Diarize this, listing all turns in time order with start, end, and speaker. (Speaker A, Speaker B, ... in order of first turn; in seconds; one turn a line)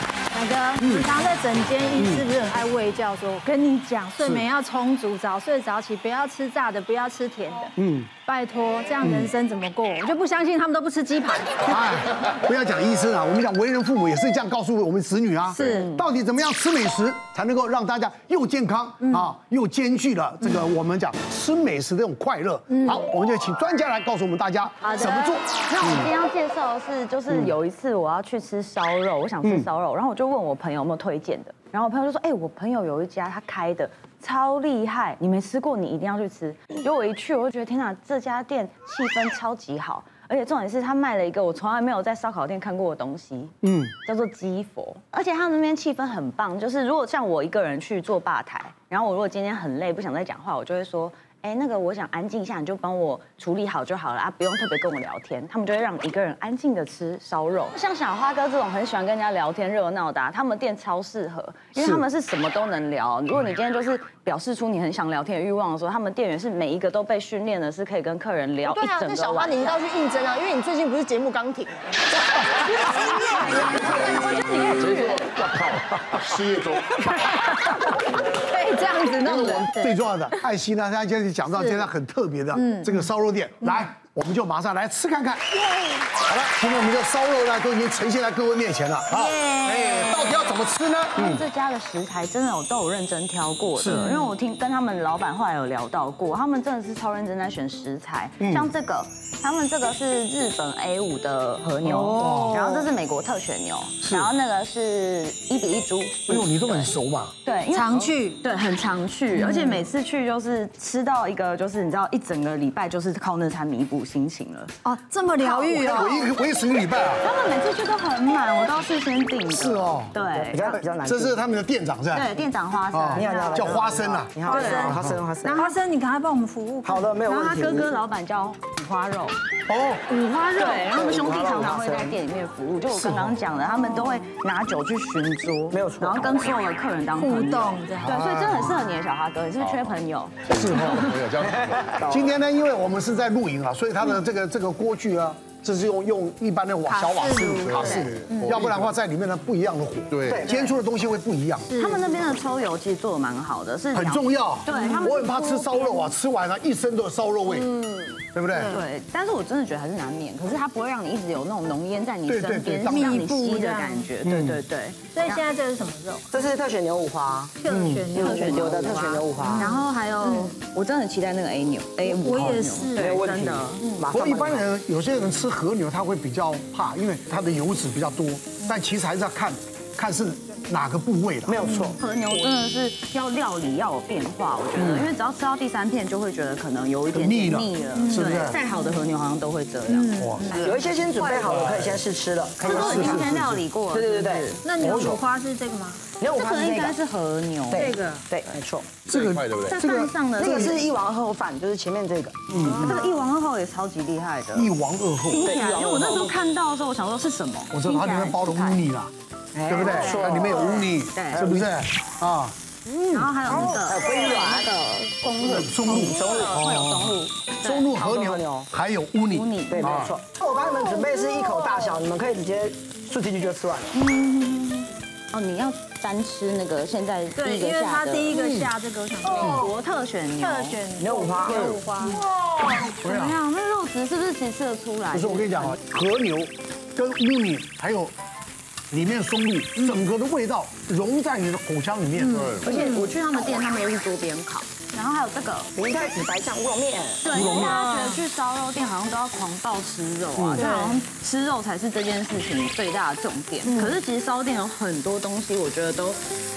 Speaker A: 0.3-7.7
Speaker B: 0.8-1.1
Speaker B: 2.0-2.3
Speaker B: 4.2-4.5
Speaker B: 7.8-8.1
Speaker A: 8.2-11.9
Speaker B: 9.0-9.3
Speaker B: 11.6-26.1
Speaker A: 15.5-15.9
Speaker C: 15.6-16.0
Speaker A: 19.0-19.3
Speaker A: 22.7-23.0
Speaker A: 24.8-25.4
Speaker C: 25.7-69.8
Speaker B: 29.4-29.7
Speaker B: 43.6-43.9
Speaker B: 61.8-62.0
Speaker D: 68.8-71.8
Speaker E: 70.0-70.4
Speaker E: 70.9-71.3
Speaker A: 72.7-75.3
Speaker E: 73.5-73.8
Speaker F: 73.8-77.0
Speaker A: 77.2-77.8
Speaker A: 78.4-79.9
Speaker B: 79.3-85.5
Speaker A: 81.5-81.9
Speaker A: 82.5-83.0
Speaker B: 86.2-91.4
Speaker A: 89.1-90.3
Speaker C: 91.1-114.7
Speaker B: 93.7-94.1
Speaker A: 93.9-94.3
Speaker B: 98.4-98.7
Speaker B: 101.8-102.6
Speaker A: 102.0-102.9
Speaker B: 104.0-104.3
Speaker B: 106.3-107.3
Speaker A: 107.7-108.4
Speaker A: 109.3-109.9
Speaker A: 114.8-116.3
Speaker C: 115.4-115.8
Speaker B: 115.6-117.2
Speaker C: 117.2-120.8
Speaker B: 119.5-120.2
Speaker E: 120.2-121.4
Speaker B: 120.7-122.4
Speaker C: 122.1-123.8
Speaker B: 122.9-125.2
Speaker E: 123.1-125.8
Speaker A: 124.5-127.2
Speaker C: 124.5-125.0
Speaker E: 126.8-127.9
Speaker C: 127.2-129.4
Speaker B: 129.7-130.2
Speaker C: 130.1-140.4
Speaker E: 130.7-132.2
Speaker B: 132.9-133.4
Speaker E: 135.7-136.5
Speaker A: 137.1-138.2
Speaker B: 138.0-138.8
Speaker F: 139.6-142.0
Speaker B: 140.5-141.2
Speaker E: 141.4-142.3
Speaker B: 142.1-151.7
Speaker A: 146.8-148.6
Speaker F: 147.6-148.9
Speaker C: 147.7-148.1
Speaker F: 150.1-150.5
Speaker E: 150.2-150.7
Speaker C: 150.5-150.8
Speaker A: 151.7-152.1
Speaker C: 151.8-156.1
Speaker B: 153.9-157.7
Speaker A: 154.7-155.1
Speaker C: 157.5-158.1
Speaker B: 158.3-158.7
Speaker A: 158.5-158.8
Speaker C: 158.7-165.4
Speaker B: 162.3-163.3
Speaker A: 162.9-164.1
Speaker B: 164.2-164.6
Speaker A: 165.1-166.4
Speaker E: 166.3-169.7
Speaker A: 167.6-170.5
Speaker B: 167.7-168.1
Speaker C: 168.2-173.8
Speaker A: 172.0-173.1
Speaker E: 172.9-174.7
Speaker B: 174.1-181.6
Speaker E: 181.4-182.5
Speaker A: 181.6-181.9
Speaker C: 182.0-191.3
Speaker B: 184.7-185.1
Speaker B: 187.1-188.6
Speaker A: 187.9-189.0
Speaker A: 189.9-191.5
Speaker B: 190.2-190.4
Speaker E: 190.6-193.3
Speaker B: 191.5-192.0
Speaker B: 192.6-193.6
Speaker C: 192.6-194.6
Speaker E: 193.9-195.2
Speaker A: 194.6-196.0
Speaker B: 194.8-195.2
Speaker E: 196.2-197.0
Speaker C: 196.3-197.9
Speaker E: 197.7-198.9
Speaker A: 197.7-198.2
Speaker F: 199.1-199.8
Speaker B: 199.1-200.5
Speaker C: 199.6-200.9
Speaker E: 200.4-203.0
Speaker B: 202.5-203.0
Speaker C: 202.6-204.7
Speaker B: 204.5-205.5
Speaker C: 205.2-208.8
Speaker E: 205.4-206.4
Speaker B: 207.7-209.1
Speaker E: 209.5-211.7
Speaker B: 209.7-212.5
Speaker C: 209.8-211.5
Speaker E: 212.9-214.7
Speaker C: 213.1-218.0
Speaker B: 215.4-220.2
Speaker E: 217.9-218.7
Speaker C: 219.3-220.0
Speaker E: 219.7-224.0
Speaker C: 223.9-228.4
Speaker A: 227.3-229.7
Speaker B: 228.3-228.7
Speaker C: 229.2-230.8
Speaker B: 229.4-229.7
Speaker A: 230.4-232.2
Speaker E: 231.0-231.7
Speaker C: 232.0-235.8
Speaker B: 232.9-233.4
Speaker B: 235.1-238.1
Speaker B: 238.9-242.5
Speaker A: 239.8-240.0
Speaker A: 242.2-243.1
Speaker F: 242.3-242.9
Speaker C: 242.6-245.7
Speaker E: 242.6-243.6
Speaker E: 245.7-247.7
Speaker C: 247.2-256.2
Speaker B: 247.3-247.8
Speaker A: 247.6-248.2
Speaker B: 250.4-250.6
Speaker A: 250.6-251.0
Speaker A: 253.6-254.0